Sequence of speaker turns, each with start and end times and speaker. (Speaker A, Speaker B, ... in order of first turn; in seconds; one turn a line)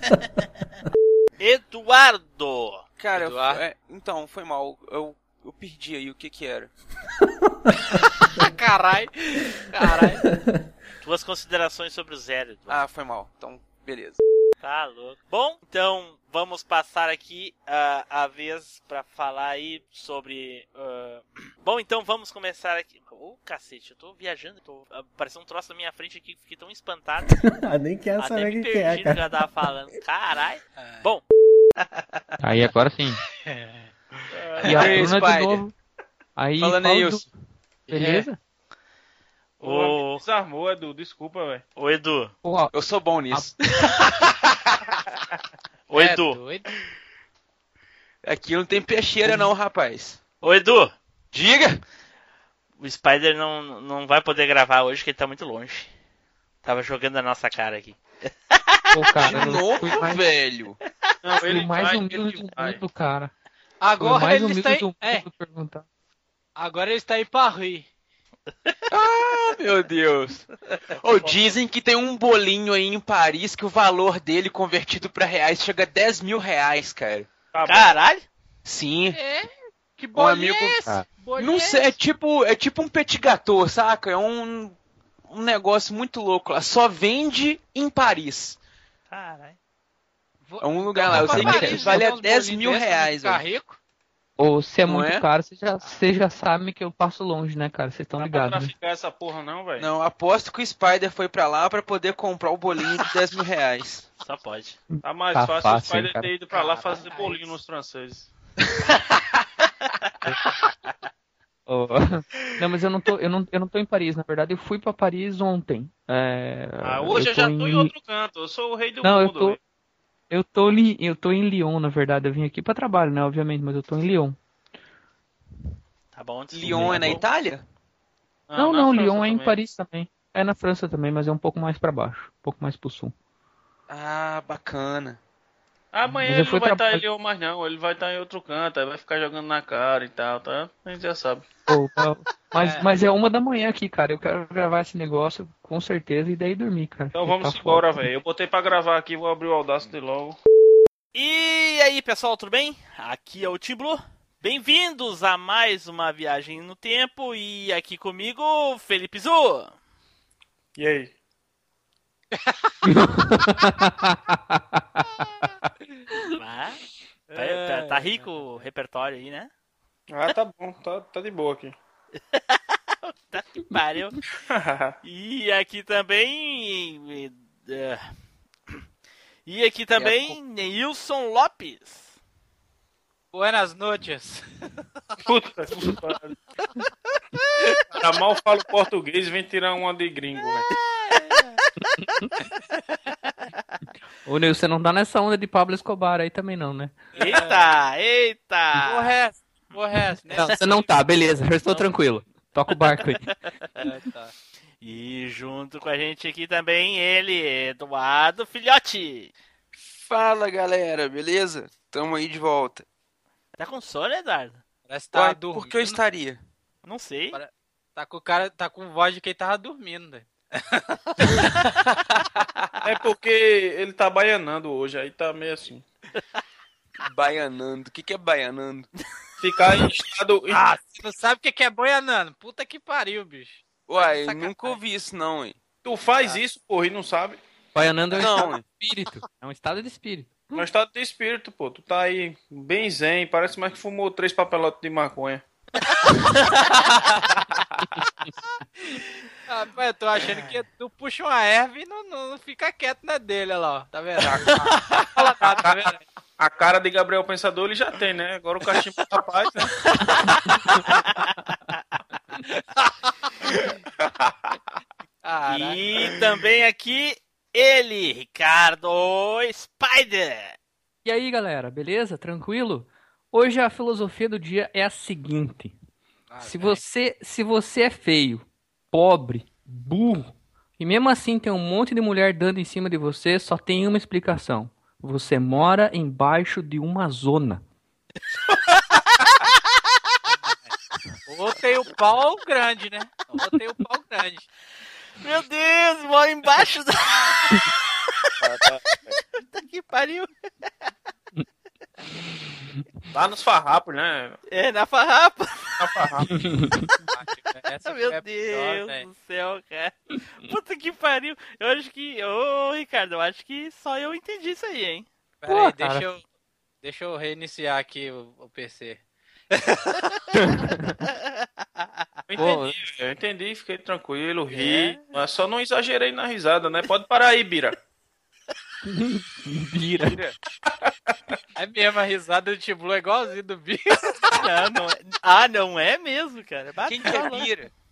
Speaker A: 1.4-2.8
Speaker B: 3.0-6.7
Speaker C: 3.2-3.6
Speaker C: 8.4-10.2
Speaker A: 11.0-12.8
Speaker B: 12.7-14.2
Speaker A: 14.6-27.4
Speaker D: 27.3-29.4
Speaker A: 28.2-31.2
Speaker C: 30.8-31.0
Speaker E: 32.4-33.2
Speaker C: 33.5-33.9
Speaker F: 34.3-35.1
Speaker B: 34.6-35.6
Speaker E: 34.7-35.7
Speaker E: 36.4-37.3
Speaker B: 36.6-37.2
Speaker E: 37.9-38.4
Speaker C: 37.9-38.3
Speaker A: 39.6-40.2
Speaker F: 39.6-41.6
Speaker A: 41.8-42.3
Speaker E: 42.4-42.7
Speaker B: 42.7-43.5
Speaker A: 45.9-46.4
Speaker C: 45.9-46.7
Speaker B: 48.2-50.2
Speaker A: 50.4-50.9
Speaker B: 51.3-51.8
Speaker A: 52.8-55.9
Speaker A: 56.6-58.8
Speaker E: 58.9-60.3
Speaker B: 59.2-60.8
Speaker F: 61.2-62.8
Speaker E: 61.4-63.3
Speaker C: 63.8-65.3
Speaker E: 64.0-65.8
Speaker C: 66.6-67.9
Speaker B: 68.9-70.5
Speaker B: 71.0-77.3
Speaker F: 77.5-78.0
Speaker A: 77.7-78.3
Speaker B: 78.7-79.2
Speaker C: 79.1-82.0
Speaker B: 80.1-88.6
Speaker A: 89.1-89.6
Speaker C: 90.5-93.8
Speaker B: 90.6-93.4
Speaker E: 91.3-91.7
Speaker E: 94.4-98.7
Speaker B: 94.9-95.3
Speaker F: 98.2-99.9
Speaker B: 99.8-104.1
Speaker A: 104.2-104.8
Speaker E: 104.9-106.3
Speaker F: 105.0-108.3
Speaker C: 106.5-107.5
Speaker E: 111.7-117.9
Speaker F: 116.8-119.6
Speaker E: 119.0-119.6
Speaker E: 120.3-124.4
Speaker A: 126.1-127.2
Speaker B: 126.5-127.6
Speaker E: 126.7-127.0
Speaker F: 128.5-129.6
Speaker E: 128.6-133.1
Speaker B: 133.9-135.2
Speaker F: 135.9-141.4
Speaker E: 136.3-137.0
Speaker E: 141.7-147.9
Speaker C: 142.6-142.9
Speaker F: 147.1-150.4
Speaker A: 151.1-159.7
Speaker F: 160.8-161.1
Speaker C: 162.4-162.7
Speaker E: 162.8-166.2
Speaker A: 166.4-166.8
Speaker C: 167.3-168.5
Speaker A: 167.3-169.5
Speaker F: 170.1-171.8
Speaker A: 172.3-174.2
Speaker F: 174.5-175.0
Speaker A: 175.0-178.0
Speaker A: 179.5-182.2
Speaker B: 180.0-180.2
Speaker C: 183.3-184.4
Speaker F: 185.2-186.3
Speaker F: 187.9-190.7
Speaker A: 190.7-191.6
Speaker E: 192.0-192.3
Speaker E: 194.3-197.1
Speaker C: 197.2-197.8
Speaker A: 197.2-199.1
Speaker C: 198.8-200.6
Speaker E: 200.3-203.3
Speaker C: 203.8-204.3
Speaker A: 204.8-209.3
Speaker B: 209.8-212.8
Speaker A: 213.6-214.6
Speaker C: 214.9-216.0
Speaker B: 215.1-216.4
Speaker A: 216.8-217.4
Speaker C: 217.3-221.3
Speaker F: 222.8-225.8
Speaker B: 227.0-228.9
Speaker F: 229.4-230.6
Speaker C: 230.8-234.8
Speaker B: 233.9-235.6
Speaker F: 235.8-237.4
Speaker E: 237.7-240.5
Speaker B: 238.2-238.7
Speaker F: 240.6-245.4
Speaker C: 249.5-256.0
Speaker F: 255.3-255.9
Speaker F: 256.4-259.7
Speaker A: 260.0-261.4
Speaker C: 265.2-265.8
Speaker A: 265.5-270.6
Speaker E: 271.1-275.8
Speaker C: 276.3-276.8
Speaker E: 276.4-287.6
Speaker C: 290.3-290.7
Speaker C: 291.3-294.5
Speaker A: 295.2-297.6
Speaker F: 298.4-299.1
Speaker A: 299.4-300.3
Speaker F: 303.1-304.4
Speaker A: 304.5-305.8
Speaker F: 305.8-306.3
Speaker E: 306.3-306.9
Speaker C: 307.1-309.1
Speaker A: 307.9-315.1
Speaker C: 315.4-316.2
Speaker E: 315.5-316.1
Speaker C: 316.8-319.0
Speaker C: 319.5-320.0
Speaker E: 320.6-320.9
Speaker F: 322.3-327.8
Speaker E: 322.4-322.8
Speaker A: 324.5-325.0
Speaker E: 328.9-330.2
Speaker C: 331.6-334.1
Speaker A: 334.3-337.5
Speaker B: 336.9-337.7